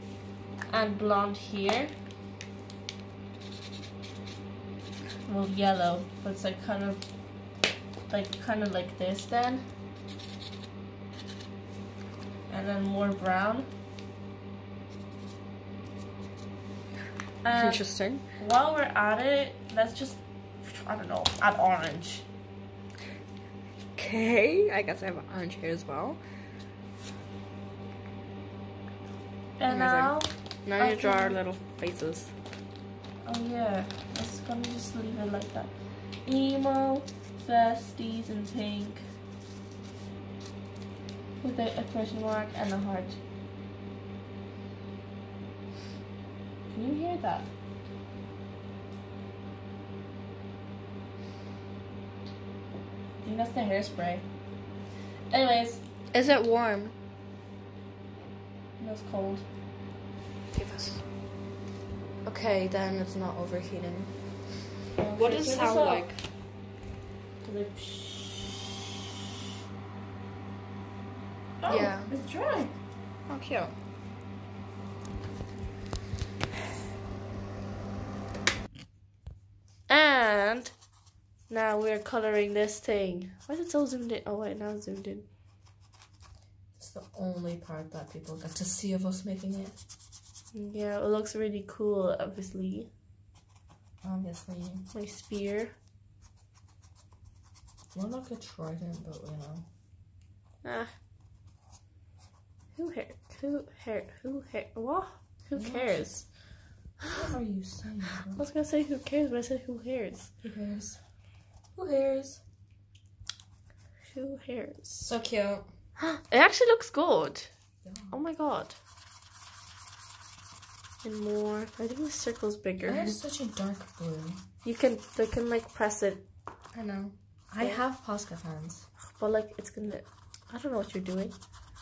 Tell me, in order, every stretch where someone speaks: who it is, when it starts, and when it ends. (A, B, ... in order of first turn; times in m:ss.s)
0:00.7-0:01.9 A
0:05.2-0:07.0 A
0:08.1-0:09.7 A
0:12.5-0:13.7 A
0:17.4-0:22.2 A
0:17.5-0:18.2 B
0:24.0-0:26.2 B
0:29.6-0:31.4 A
0:29.7-0:32.3 B
0:33.2-0:39.0 A
0:41.4-0:43.2 A
0:46.7-0:47.5 A
0:53.2-0:54.2 A
0:55.3-0:55.8 A
0:56.1-0:56.9 B
0:58.8-0:59.4 A
1:00.5-1:01.1 B
1:02.2-1:04.5 B
1:04.9-1:06.1 A
1:05.1-1:06.2 B
1:07.4-1:08.6 A
1:11.6-1:12.7 A
1:11.7-1:12.1 B
1:13.3-1:13.7 B
1:19.9-1:20.7 A
1:21.5-1:25.3 A
1:26.8-1:29.8 B
1:30.5-1:32.9 A
1:34.0-1:34.9 B
1:34.9-1:35.7 A
1:37.9-1:39.6 B
1:40.6-1:40.9 A
1:42.7-1:46.3 A
1:45.6-1:46.1 B
1:47.0-1:47.3 A
1:47.1-1:48.4 B
1:48.4-1:50.3 A
1:50.4-1:51.0 B
1:51.7-1:52.4 B
1:54.0-1:55.1 A
1:55.0-1:55.7 B
1:56.0-1:57.5 A
1:57.8-1:58.2 B
1:58.1-1:58.8 A
2:01.0-2:03.2 A
2:02.8-2:04.4 B
2:04.6-2:06.2 A
2:06.7-2:08.9 B
2:09.0-2:11.3 A